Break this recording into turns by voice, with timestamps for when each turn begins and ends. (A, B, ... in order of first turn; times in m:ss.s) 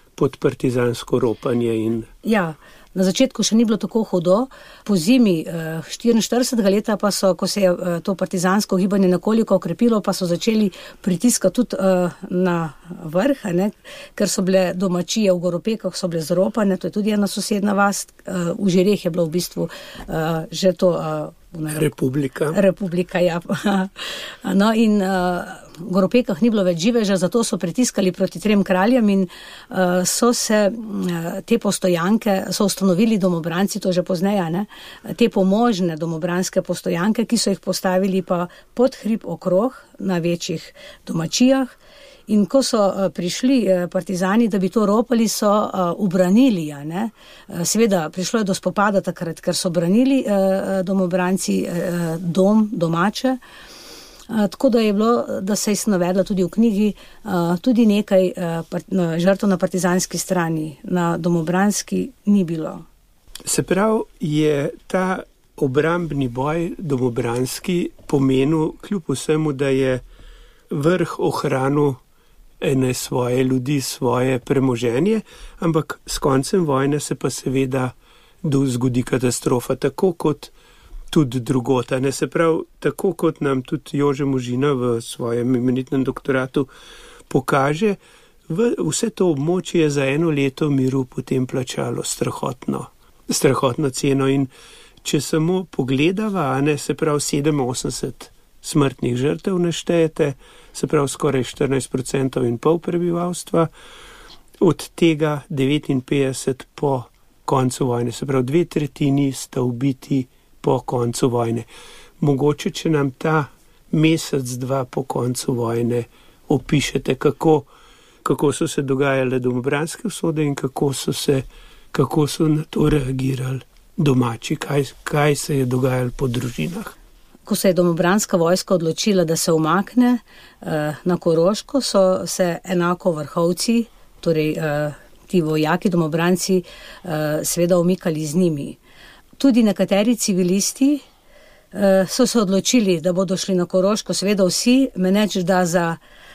0:00.2-0:02.1 A
0:02.2-0:21.9 B
0:21.7-0:22.6 A
0:22.5-0:41.8 B
0:42.3-0:53.4 B
0:54.3-1:02.8 B
1:03.4-1:10.0 A
1:10.7-1:12.0 A
1:12.6-1:20.5 A
1:21.1-1:26.7 A
1:27.3-1:34.5 A
1:35.0-1:43.7 A
1:44.6-1:51.6 A
1:52.2-1:57.7 A
1:58.2-2:06.9 A
2:07.4-2:18.8 B
2:19.4-2:21.0 B
2:21.7-2:26.0 B